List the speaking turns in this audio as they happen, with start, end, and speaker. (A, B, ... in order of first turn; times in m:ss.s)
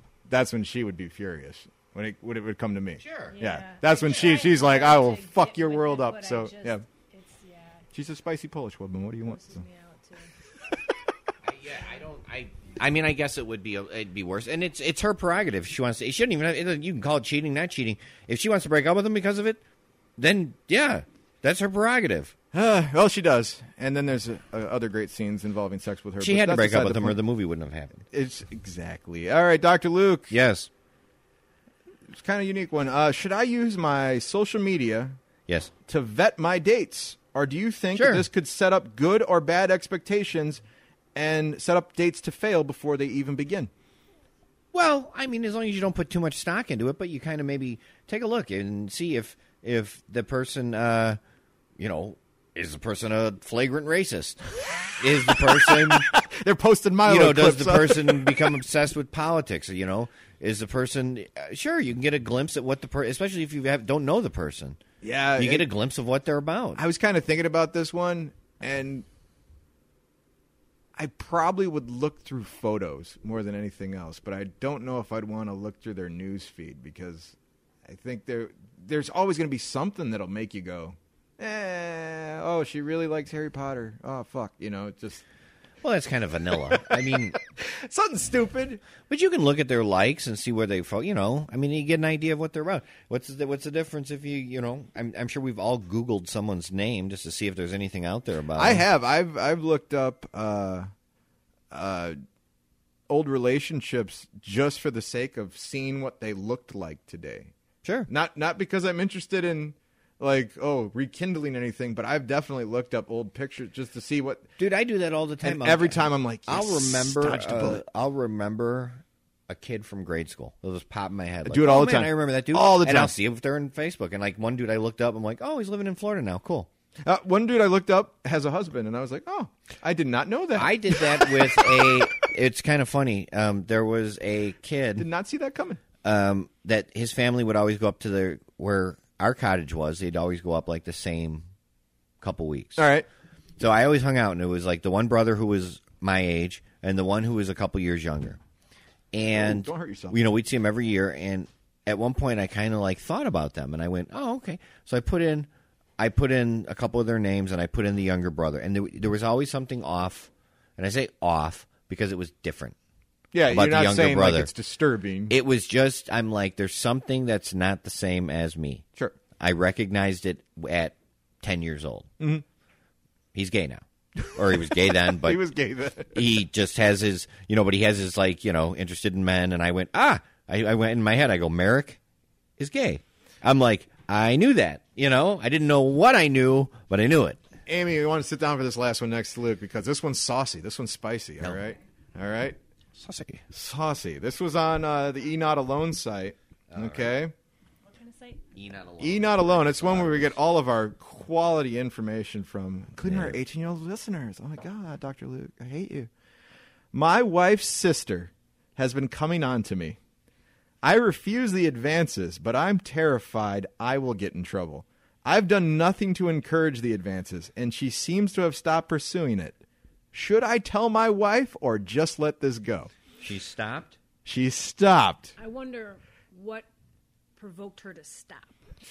0:00.3-0:06.8 A
0:03.0-0:03.4 B
0:03.3-0:07.9 C
0:07.9-0:09.6 A
0:09.2-0:10.3 C
0:11.4-0:19.6 B
0:20.2-0:22.3 B
0:22.5-0:27.2 A
0:26.2-0:28.0 B
0:28.1-0:30.3 A
0:30.3-0:30.7 B
0:32.1-0:35.2 A
0:35.9-0:40.6 A
0:38.0-0:38.3 B
0:41.2-0:43.7 A
0:44.7-0:51.2 B
0:51.8-0:54.4 B
0:55.0-0:56.1 B
0:55.3-0:58.5 A
0:57.1-1:04.8 B
1:05.0-1:05.7 A
1:05.4-1:06.8 B
1:06.8-1:09.1 A
1:11.0-1:25.2 A
1:25.8-1:27.4 B
1:27.6-1:28.8 A
1:29.0-1:38.8 B
1:38.6-1:40.9 A
1:41.7-1:42.2 A
1:43.1-1:47.5 A
1:47.8-1:48.1 B
1:48.1-1:54.5 A
1:54.6-2:06.7 B
1:55.4-1:57.8 A
2:01.4-2:03.1 A
2:07.0-2:11.9 A
2:10.6-2:15.1 B
2:15.0-2:15.8 A
2:16.0-2:21.4 B
2:22.2-2:22.9 B
2:22.8-2:23.1 A
2:23.6-2:28.4 B
2:29.1-2:42.8 B
2:29.2-2:30.2 A
2:43.3-2:45.4 A
2:43.5-2:44.5 B
2:45.3-2:48.8 B
2:49.4-2:52.1 B
2:53.3-2:55.4 B
2:54.2-2:56.2 A
2:56.1-3:02.0 B
3:02.6-3:07.4 B
3:07.7-3:12.6 A
3:12.9-3:13.4 B
3:13.5-3:17.3 A
3:16.7-3:17.2 B
3:17.8-3:18.5 C
3:18.6-3:20.4 B
3:19.0-3:26.1 A
3:23.1-3:23.4 B
3:26.9-3:30.0 A
3:30.8-3:39.6 A
3:40.1-3:42.9 A
3:43.2-3:44.0 B
3:44.2-3:45.4 A
3:45.4-3:46.7 C
3:47.4-3:48.6 C